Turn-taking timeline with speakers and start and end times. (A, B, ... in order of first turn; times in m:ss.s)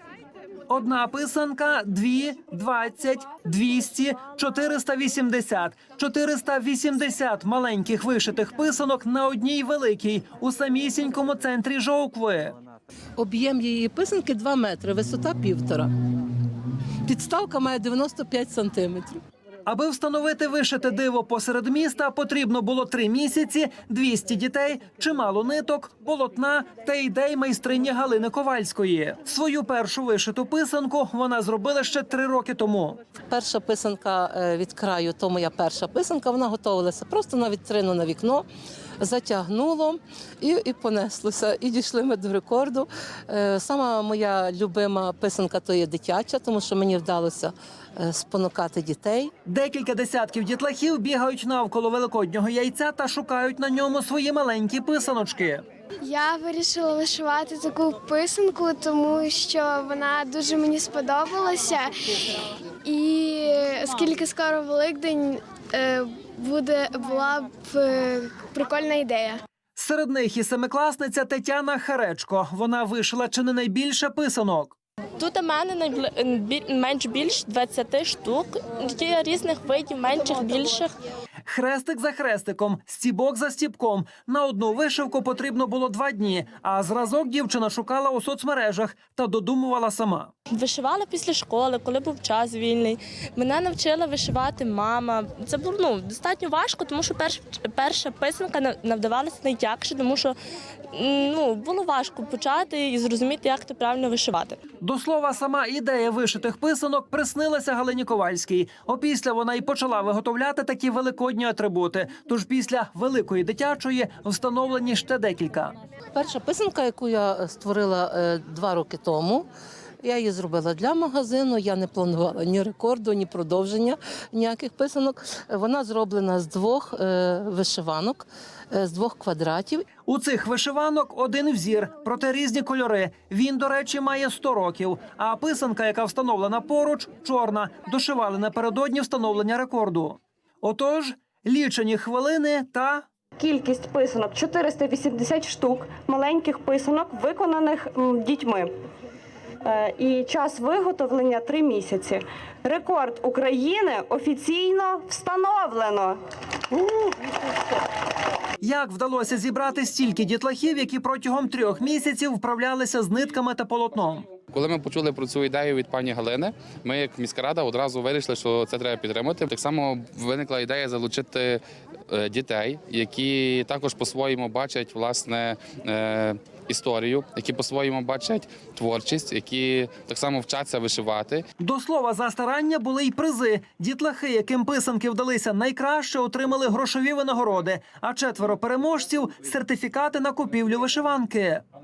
0:00.7-0:12.5 A
0:13.2-0:15.9 B
0:17.0-0:19.2 B
0:19.7-0:33.0 A
0:33.3-0:38.4 B
0:39.0-0:49.3 B
0:49.4-0:55.6 A
0:56.0-1:02.3 C
1:02.8-1:09.4 C
1:09.8-1:14.8 A
1:15.2-1:20.9 D
1:21.5-1:30.3 A
1:30.6-1:40.4 D
1:40.9-1:44.6 D
1:44.8-1:55.8 A
1:56.2-1:59.5 B
2:00.0-2:09.9 B
2:10.1-2:23.1 A
2:23.4-2:28.7 E
2:29.6-2:36.2 E
2:38.6-2:44.3 A
2:44.5-3:01.4 F
3:01.6-3:11.6 A